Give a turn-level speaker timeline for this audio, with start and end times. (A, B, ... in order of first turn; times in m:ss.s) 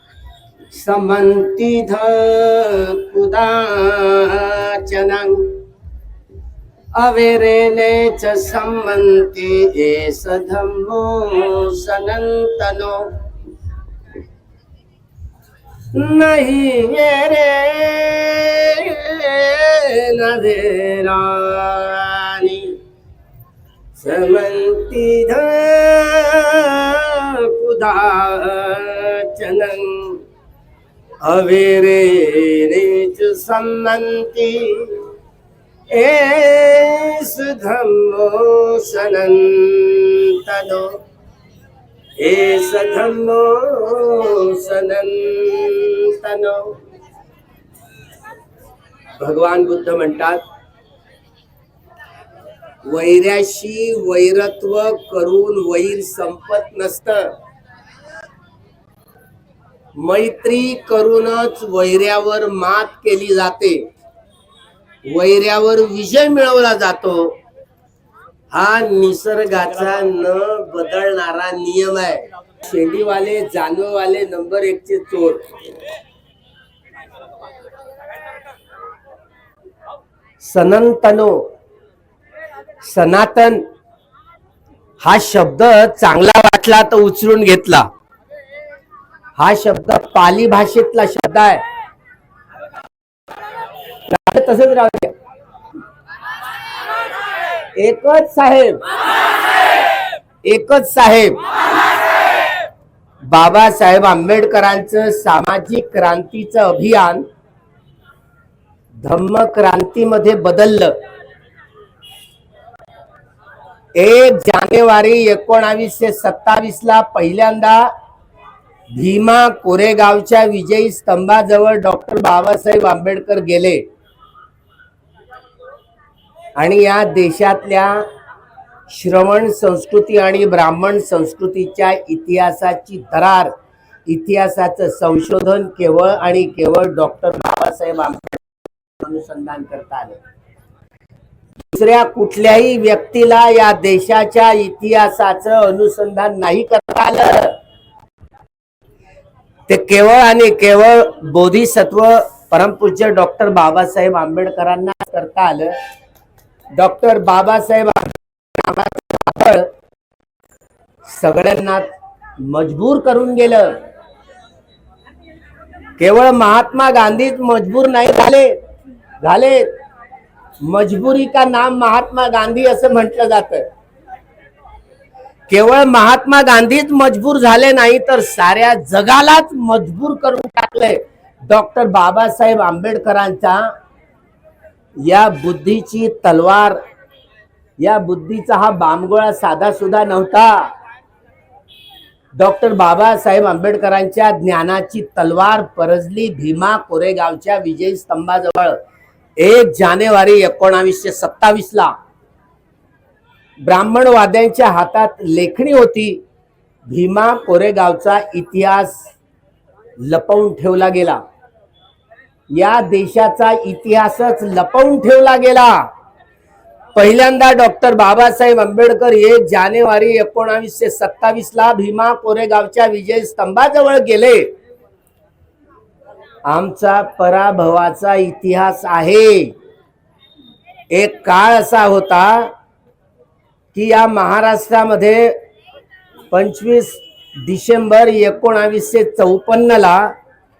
0:00.7-0:05.5 A
0:07.0-0:13.1 A
0:15.9-0:22.8 A
0:24.0-0:30.2 A
0:31.2-0:35.0 A
0:35.9-0:41.0 A
0:42.2-0:46.7 A
0:49.2-0:50.4 A
0:52.9-0:57.3 A
1:00.0-1:03.8 A
1:05.1-1:07.3 A
1:08.5-1:15.4 A
1:20.4-1:21.4 A
1:22.8-1:23.6 A
1:25.0-1:27.9 A
1:29.4-1:31.6 A
1:34.1-1:35.1 A
1:37.8-1:38.8 A
1:40.4-1:41.4 A
1:43.2-1:47.2 A
1:49.0-1:50.9 A
1:54.0-1:57.9 A
1:58.9-2:03.8 A
2:06.6-2:08.0 A
2:08.9-2:13.5 A
2:14.1-2:18.4 A
2:19.0-2:20.2 A
2:21.7-2:27.5 A
2:29.7-2:35.7 A
2:36.8-2:39.7 A
2:41.1-2:41.9 A
2:42.4-2:43.8 A
2:46.0-2:48.5 A
2:49.2-2:49.7 A
2:50.6-2:53.6 A
2:55.5-3:03.7 A
3:05.0-3:06.8 A
3:07.8-3:10.7 A
3:12.4-3:18.8 A
3:19.4-3:21.9 A
3:23.6-3:26.2 A
3:26.8-3:29.0 A
3:30.0-3:31.2 A
3:32.5-3:35.8 A
3:36.9-3:44.5 A
3:46.5-3:49.5 A
3:50.9-3:52.5 A
3:53.7-3:55.4 A
3:56.3-4:00.1 A